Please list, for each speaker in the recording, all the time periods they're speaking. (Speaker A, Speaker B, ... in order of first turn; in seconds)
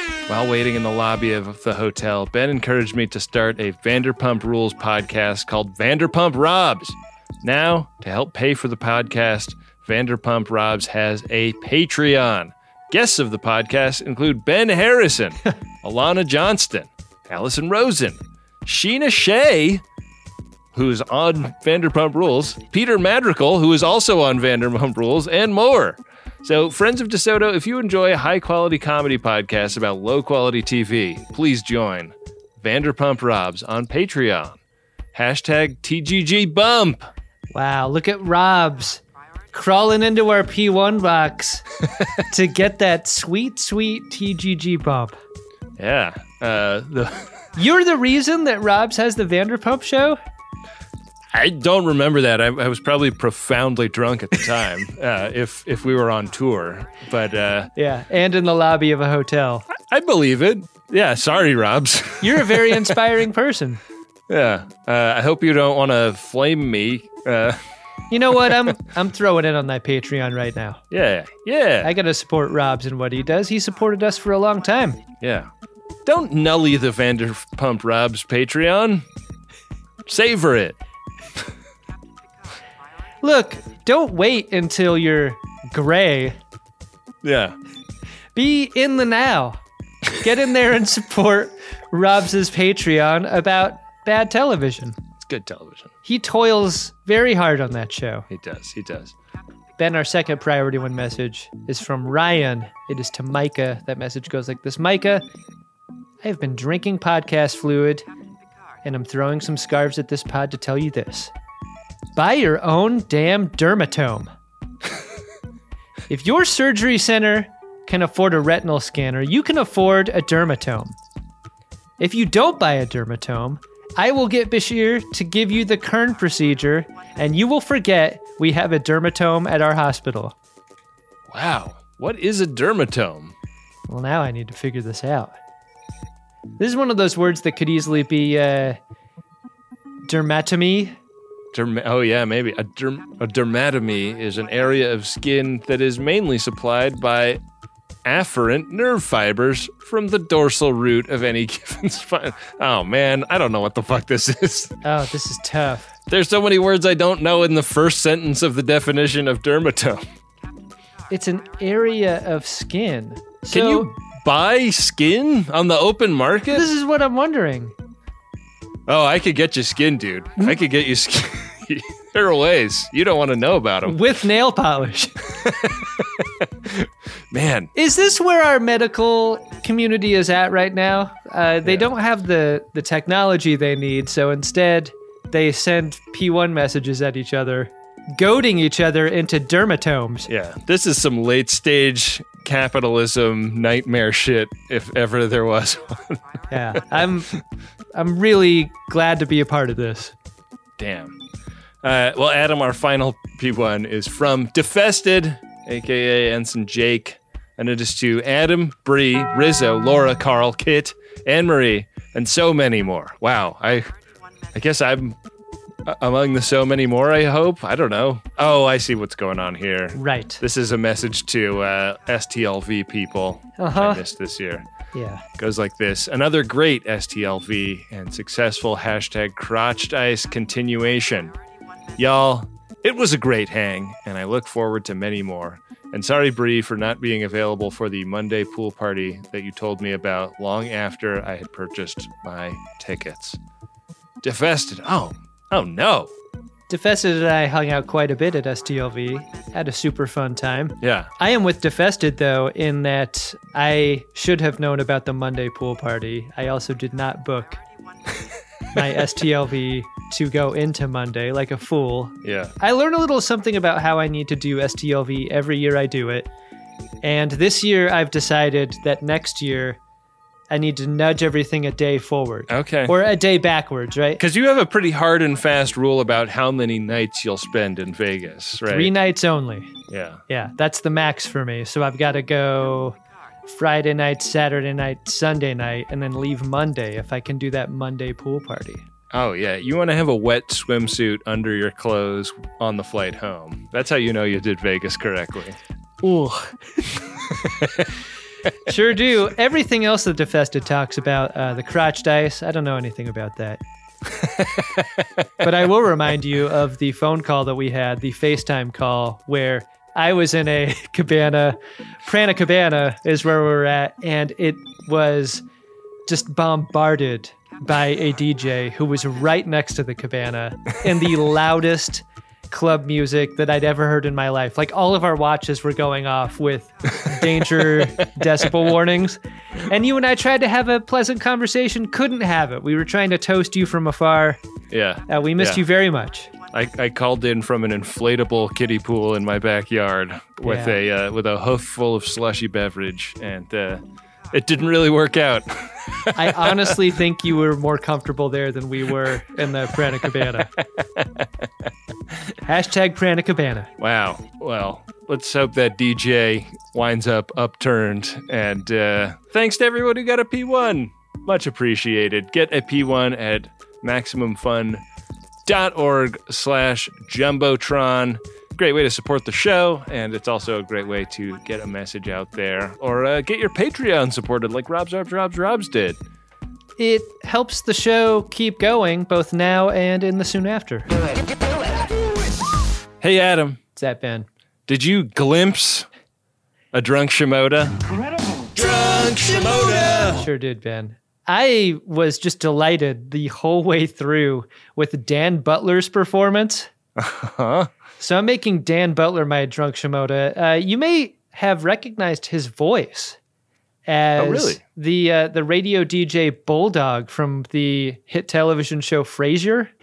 Speaker A: 0.3-19.8, 20.7-34.6, 35.1-37.1, 45.8-47.3, 51.3-57.7, 59.7-63.0, 64.3-67.6, 68.4-68.7, 70.9-71.9, 75.2-75.5, 76.0-79.1, 80.1-80.8, 87.2-87.6, 95.2-95.9, 98.3-99.1, 131.3-133.3, 141.5-147.4, 148.1-154.8, 156.1-160.0, 163.5-166.7, 168.9-174.0, 175.4-177.7, 181.7-181.9, 190.3-197.0, 200.8-201.2, 201.8-213.9, 214.5-215.2, 215.9-224.7, 225.4-231.3, 232.0-243.4, 244.2-246.1, 250.8-251.1, 262.2-262.5, 272.5-273.0, 274.2-278.9, 279.9-280.2, 289.1-295.6, 297.4-297.7, 304.2-304.8, 327.6-327.9, 334.7-335.6, 336.5-346.8, 350.0-351.5, 353.8-364.8, 365.5-376.0, 383.0-383.6, 384.7-385.9, 386.7-390.2, 397.0-397.7, 404.2-404.6
Speaker B: 37.5-39.0, 39.5-41.6, 42.3-45.2, 47.6-50.2, 57.8-59.7, 62.2-63.8, 68.1-70.8, 71.8-75.0, 83.2-86.4, 88.3-89.6, 90.2-95.0, 96.0-98.3, 99.8-105.2, 106.2-108.0, 108.8-111.3, 112.2-114.3, 116.1-121.0, 122.0-130.3, 133.9-135.3, 136.6-138.8, 140.1-141.0, 154.8-155.9, 161.1-163.9, 166.5-167.7, 173.8-175.2, 177.8-190.3, 196.5-197.3, 197.9-200.1, 219.9-220.4, 223.6-224.0, 224.9-225.2, 246.7-257.6, 258.7-266.3, 267.0-269.8, 270.5-274.2, 278.7-279.8, 280.3-288.9, 296.0-296.6, 298.7-303.6, 305.4-315.4, 316.1-334.4, 335.1-336.3, 340.4-340.8, 346.1-350.5, 352.4-353.7, 376.8-380.9, 383.8-384.3, 390.1-396.7, 398.0-403.2, 403.9-409.7